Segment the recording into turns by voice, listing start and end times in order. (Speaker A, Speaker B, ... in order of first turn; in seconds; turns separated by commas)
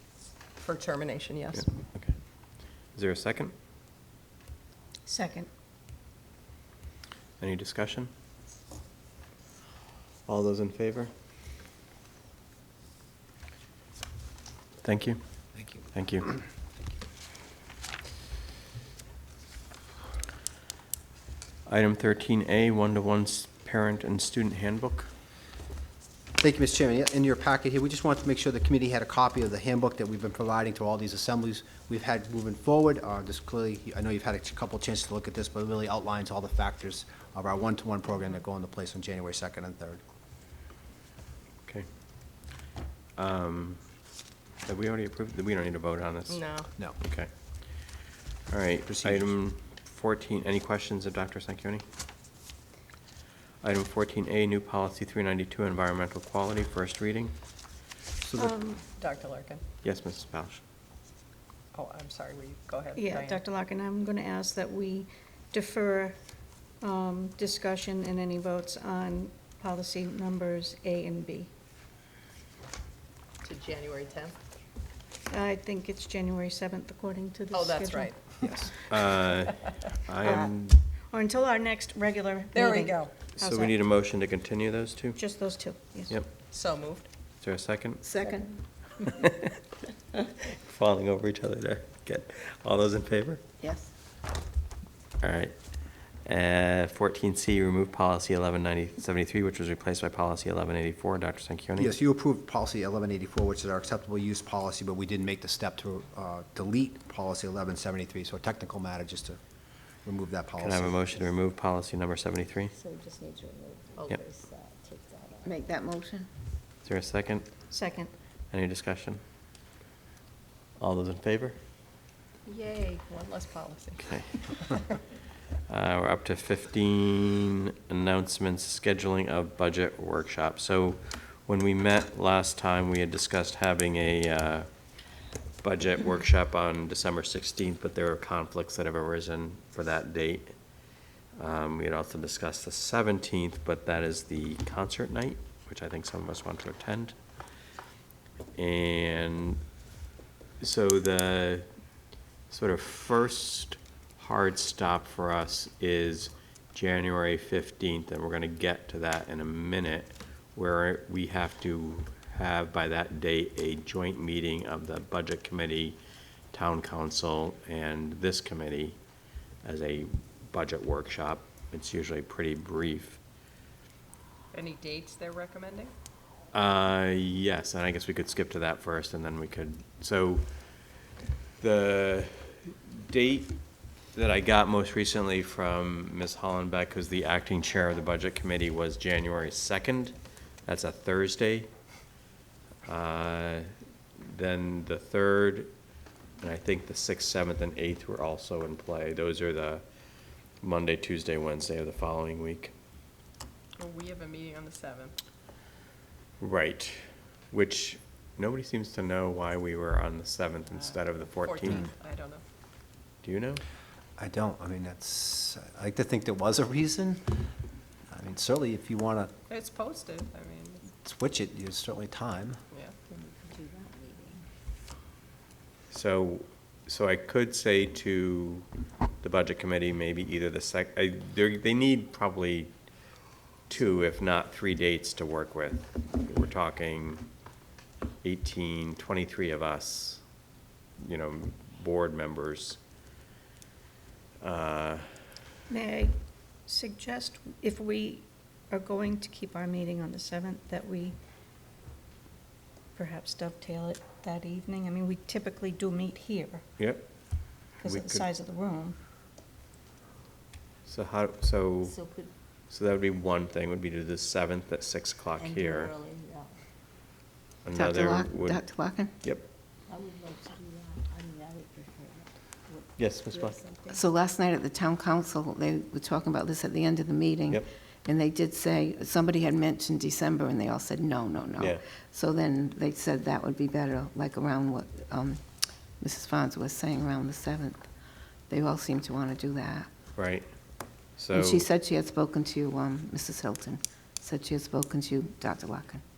Speaker A: 0.6-1.7, Speaker B: 1.6-2.2, Speaker B: 2.8-3.5, Speaker C: 5.1-5.5, Speaker B: 7.4-8.1, Speaker B: 10.3-11.1, Speaker B: 14.8-15.2, Speaker B: 15.9-16.3, Speaker B: 21.7-25.1, Speaker D: 26.4-40.0, Speaker B: 43.2-43.8, Speaker B: 44.6-47.3, Speaker A: 46.3-46.7, Speaker B: 48.5-51.8, Speaker D: 48.9-49.4, Speaker B: 53.6-57.3, Speaker D: 58.2-58.5, Speaker C: 58.4-58.8, Speaker A: 59.0-59.6, Speaker B: 59.8-60.6, Speaker A: 61.7-63.4, Speaker C: 63.0-66.2, Speaker C: 66.8-71.5, Speaker A: 73.4-74.4, Speaker C: 75.3-78.2, Speaker A: 77.5-78.6, Speaker D: 78.4-78.7, Speaker B: 78.8-80.8, Speaker C: 80.2-80.5, Speaker C: 81.1-83.8, Speaker A: 82.5-83.2, Speaker B: 83.4-85.2, Speaker C: 85.2-86.2, Speaker A: 86.5-87.1, Speaker B: 87.4-88.0, Speaker E: 88.0-88.5, Speaker B: 89.1-89.5, Speaker B: 90.5-93.4, Speaker E: 93.6-93.9, Speaker B: 95.2-95.6, Speaker B: 96.1-101.9, Speaker D: 101.8-109.4, Speaker D: 110.0-111.2, Speaker B: 110.6-112.7, Speaker F: 112.7-115.6, Speaker A: 114.0-114.2, Speaker E: 115.4-116.3, Speaker B: 116.8-117.5, Speaker C: 117.7-118.1, Speaker B: 118.5-119.2, Speaker B: 120.8-121.6, Speaker A: 122.5-124.9, Speaker B: 124.0-124.3, Speaker B: 125.7-134.7, Speaker B: 135.6-140.6, Speaker B: 141.4-147.2, Speaker B: 148.6-149.6, Speaker B: 150.6-151.7, Speaker B: 152.5-166.0, Speaker B: 166.5-169.0, Speaker B: 169.6-173.2, Speaker A: 174.5-175.9, Speaker B: 176.5-180.4, Speaker B: 181.6-183.6, Speaker B: 184.1-191.7, Speaker B: 192.9-195.7, Speaker B: 196.4-199.8, Speaker B: 200.6-202.7, Speaker A: 203.8-205.1, Speaker B: 206.4-211.9, Speaker A: 210.8-212.4, Speaker B: 213.2-213.6, Speaker D: 214.2-217.5, Speaker D: 218.1-219.3, Speaker A: 219.5-220.9, Speaker D: 221.0-222.6, Speaker F: 223.1-224.4, Speaker B: 225.9-228.7, Speaker B: 229.2-232.7, Speaker B: 233.7-237.3, Speaker B: 238.2-240.2, Speaker B: 241.0-242.8, Speaker B: 244.4-245.1, Speaker C: 245.7-246.2, Speaker C: 246.7-251.2, Speaker C: 252.9-256.7, Speaker B: 256.8-257.1, Speaker B: 257.8-258.3, Speaker C: 257.8-259.0, Speaker B: 260.9-262.0, Speaker F: 261.9-262.3, Speaker B: 262.7-265.9, Speaker F: 265.4-266.6, Speaker B: 267.6-269.4, Speaker E: 267.7-269.1, Speaker F: 269.9-274.0, Speaker B: 273.0-273.6, Speaker E: 273.9-285.4, Speaker E: 286.0-287.9, Speaker E: 288.5-289.9, Speaker B: 290.2-290.5, Speaker B: 291.2-291.6, Speaker E: 291.3-296.0